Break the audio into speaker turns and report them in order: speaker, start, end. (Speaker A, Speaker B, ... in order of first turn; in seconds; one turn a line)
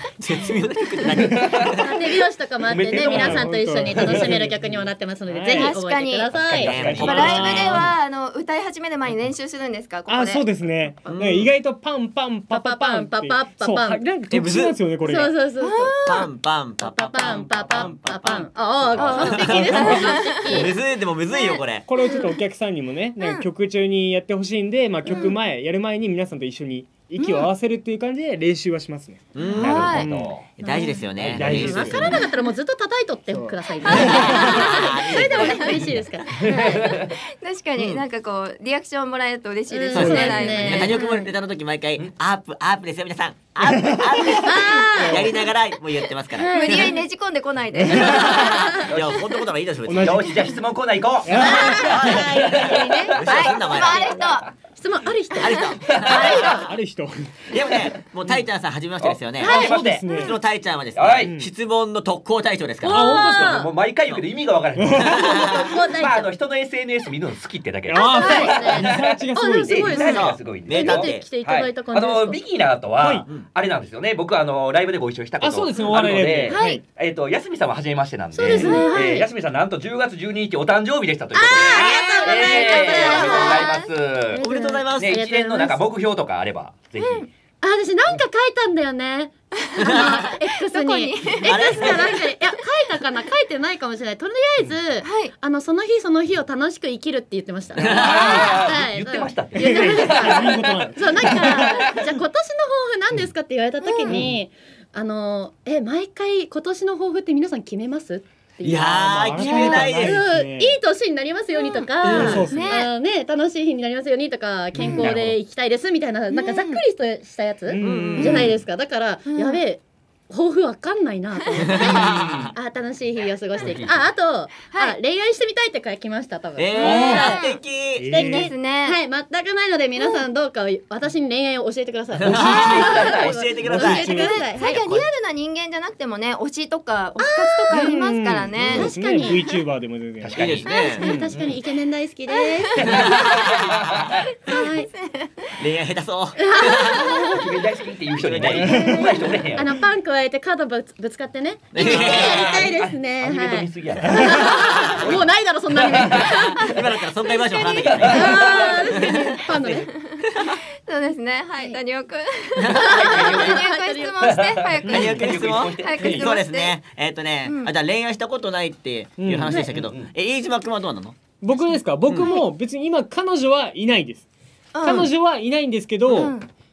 Speaker A: 0.2-2.0
Speaker B: 1.2-1.9
Speaker C: 1.8-7.4
Speaker B: 2.6-4.4
Speaker D: 2.9-5.7
Speaker E: 5.5-11.2
Speaker B: 6.3-7.9
Speaker A: 6.5-7.9
Speaker D: 7.0-7.3
Speaker D: 10.1-15.4
Speaker A: 11.1-11.5
Speaker C: 12.5-14.0
Speaker A: 14.3-14.8
Speaker C: 15.0-16.0
Speaker E: 15.6-16.3
Speaker A: 16.1-21.9
Speaker C: 16.8-20.7
Speaker B: 18.9-19.3
Speaker E: 18.9-20.7
Speaker D: 19.4-20.3
Speaker E: 21.3-22.3
Speaker D: 21.9-30.3
Speaker E: 23.2-23.5
Speaker E: 25.1-25.3
Speaker E: 27.2-27.4
Speaker A: 29.3-29.9
Speaker E: 29.4-30.1
Speaker B: 29.6-30.5
Speaker A: 30.6-32.1
Speaker C: 30.6-36.8
Speaker E: 30.7-31.0
Speaker B: 31.1-32.1
Speaker D: 31.3-32.4
Speaker D: 33.3-34.8
Speaker E: 33.8-35.7
Speaker A: 33.9-35.9
Speaker E: 36.3-41.2
Speaker B: 36.4-37.1
Speaker A: 37.8-38.0
Speaker C: 39.7-41.2
Speaker A: 39.9-47.0
Speaker D: 40.0-40.3
Speaker D: 43.8-44.2
Speaker C: 44.4-45.3
Speaker E: 44.5-44.9
Speaker C: 46.3-47.0
Speaker E: 46.5-49.2
Speaker D: 47.8-48.2
Speaker A: 47.8-50.3
Speaker C: 48.3-48.9
Speaker D: 49.9-50.4
Speaker B: 50.0-53.6
Speaker D: 51.2-52.3
Speaker C: 51.3-53.2
Speaker A: 51.4-54.1
Speaker E: 53.2-54.5
Speaker C: 53.7-56.6
Speaker A: 55.3-55.9
Speaker E: 55.5-56.7
Speaker B: 55.8-56.5
Speaker D: 56.1-57.7
Speaker A: 57.5-63.3
Speaker B: 59.0-60.3
Speaker C: 59.4-59.9
Speaker D: 59.5-60.3
Speaker B: 60.9-61.3
Speaker D: 61.2-61.5
Speaker C: 62.8-63.7
Speaker D: 62.9-63.6
Speaker B: 63.1-87.3
Speaker D: 64.8-65.3
Speaker C: 65.2-66.3
Speaker A: 65.2-65.6
Speaker D: 67.9-70.0
Speaker C: 67.9-72.4
Speaker A: 69.9-71.2
Speaker D: 73.0-73.3
Speaker D: 75.4-76.8
Speaker C: 76.5-76.8
Speaker C: 78.3-79.3
Speaker E: 78.5-79.0
Speaker D: 78.5-78.8
Speaker C: 81.3-83.8
Speaker E: 81.6-83.9
Speaker A: 81.6-83.5
Speaker C: 84.3-85.8
Speaker A: 84.4-85.1
Speaker E: 87.0-87.3
Speaker C: 87.6-127.4
Speaker E: 89.6-92.2
Speaker A: 91.4-92.1
Speaker E: 95.0-95.3
Speaker A: 97.7-98.6
Speaker B: 97.8-102.1
Speaker D: 99.6-101.8
Speaker E: 103.8-104.2
Speaker B: 104.1-104.3
Speaker A: 108.6-110.2
Speaker D: 108.7-110.7
Speaker E: 111.5-112.9
Speaker A: 112.0-112.5
Speaker D: 112.0-112.7
Speaker B: 115.0-115.4
Speaker E: 116.3-116.8
Speaker D: 117.7-118.6
Speaker A: 117.8-118.5
Speaker E: 119.2-119.6
Speaker A: 121.6-122.5
Speaker B: 121.8-122.5
Speaker B: 123.6-124.1
Speaker E: 124.7-125.0
Speaker A: 126.6-128.1
Speaker E: 126.8-127.6
Speaker D: 126.8-127.3
Speaker D: 128.0-128.5
Speaker C: 128.1-134.8
Speaker E: 128.1-129.0
Speaker E: 130.0-130.2
Speaker B: 132.2-133.4
Speaker A: 132.2-135.1
Speaker E: 132.4-133.0
Speaker D: 133.6-134.4
Speaker E: 133.7-138.9
Speaker C: 137.2-138.0
Speaker D: 137.7-141.3
Speaker C: 138.7-139.4
Speaker B: 140.2-141.6
Speaker A: 140.3-141.0
Speaker E: 140.7-141.1
Speaker C: 140.7-143.1
Speaker E: 142.3-143.6
Speaker B: 142.8-144.2
Speaker E: 144.4-145.6
Speaker C: 144.4-144.9
Speaker A: 145.6-147.2
Speaker C: 146.4-147.5
Speaker E: 146.7-147.4
Speaker B: 147.3-149.7
Speaker A: 148.2-148.7
Speaker D: 148.6-149.1
Speaker C: 148.6-156.7
Speaker A: 151.7-152.6
Speaker B: 151.8-156.4
Speaker E: 154.3-154.6
Speaker E: 156.2-166.8
Speaker A: 156.6-158.4
Speaker B: 157.8-158.7
Speaker C: 158.1-159.9
Speaker A: 158.9-159.4
Speaker A: 162.6-163.1
Speaker C: 162.7-164.4
Speaker B: 163.1-163.6
Speaker B: 164.3-166.3
Speaker A: 164.8-171.2
Speaker E: 167.4-167.7
Speaker D: 169.2-169.6
Speaker B: 169.7-170.1
Speaker D: 171.4-174.3
Speaker A: 172.1-172.3
Speaker E: 172.2-172.4
Speaker E: 174.7-175.1
Speaker D: 174.8-176.3
Speaker E: 176.1-176.5